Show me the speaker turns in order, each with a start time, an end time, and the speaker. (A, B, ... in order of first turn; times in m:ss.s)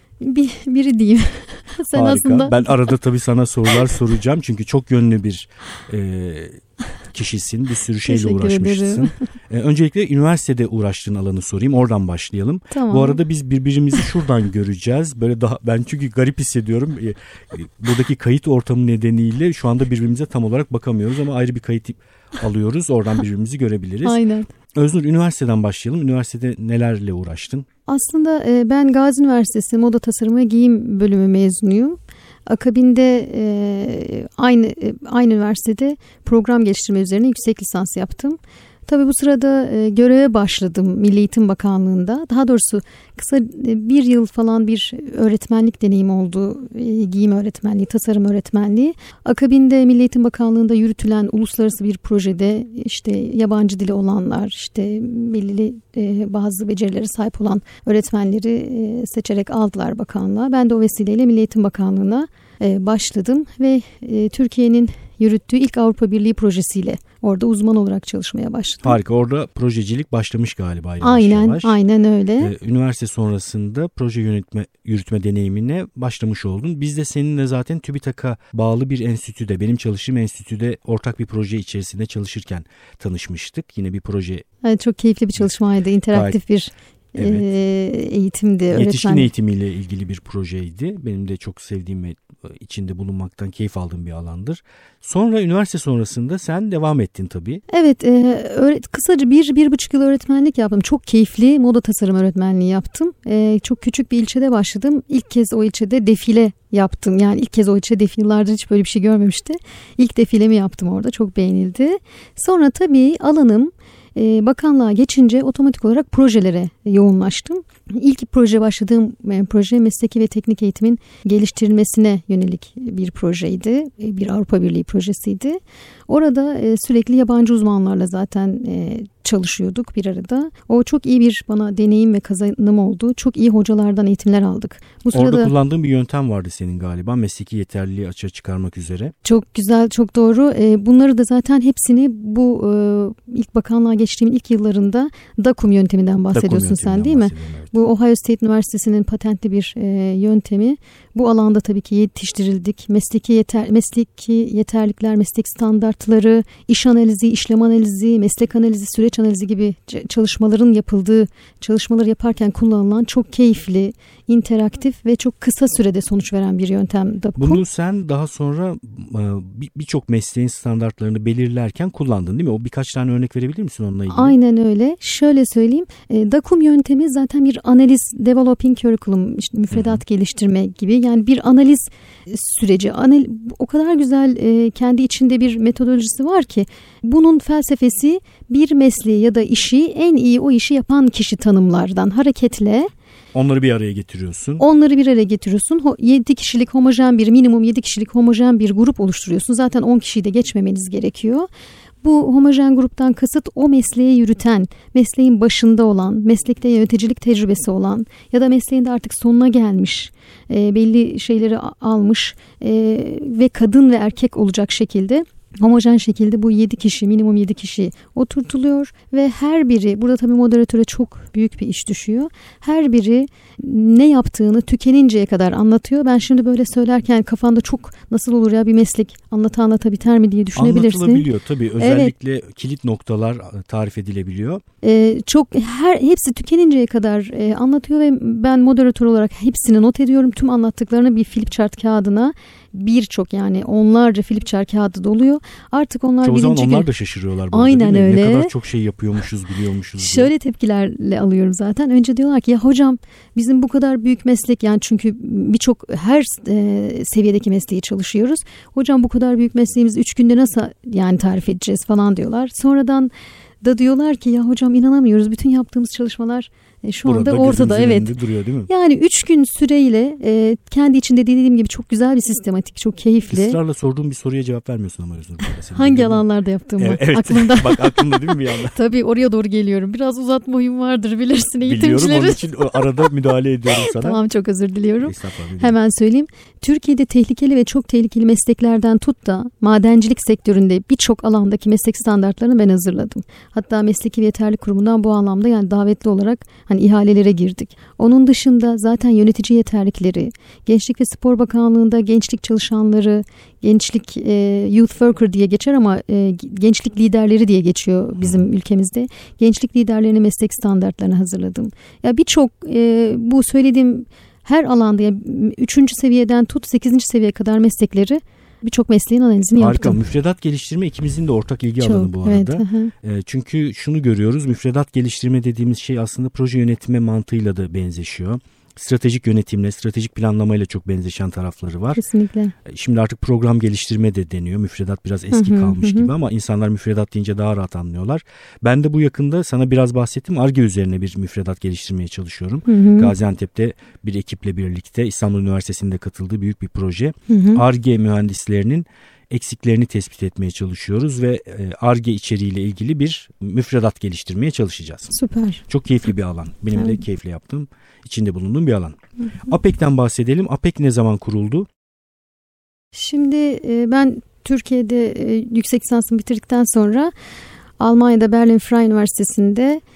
0:00.2-0:02.9 A
0:01.9-0:24.2 B
0:08.0-0:09.1 A
0:12.7-0:13.2 A
0:24.0-0:24.5 A
0:24.7-0:27.7 B
0:27.9-1:09.0 A
1:08.8-1:11.8 B
1:11.0-1:12.5 A
1:12.4-1:24.4 B
1:24.6-1:29.3 A
1:26.1-1:26.4 B
1:27.2-1:27.5 B
1:28.7-1:37.6 B
1:37.7-2:15.5 A
2:15.1-2:19.1 B
2:19.2-2:47.6 A
2:26.3-2:27.8 B
2:47.4-2:54.4 B
2:54.1-3:12.9 A
2:59.7-3:00.0 B
3:13.3-3:14.6 B
3:14.6-3:21.5 A
3:22.0-3:52.1 A
3:50.6-3:54.6 B
3:54.8-4:06.9 A
4:06.2-4:10.3 B
4:07.5-4:08.5 A
4:10.0-4:28.1 A
4:27.0-4:28.7 B
4:28.7-4:33.6 A
4:33.3-4:36.2 B
4:35.7-5:20.0 A
4:36.8-4:38.8 B
4:41.6-4:44.2 B
4:45.0-4:45.8 B
5:08.2-5:08.5 B
5:19.6-5:32.0 B
5:21.8-5:22.9 A
5:32.0-5:32.6 A
5:32.6-5:55.1 B
5:35.3-5:36.1 A
5:42.7-5:43.2 A
5:47.3-5:47.6 A
5:55.1-5:55.6 A
5:55.7-6:01.7 B
5:56.7-5:57.0 A
6:02.9-6:07.1 A
6:07.8-6:09.8 A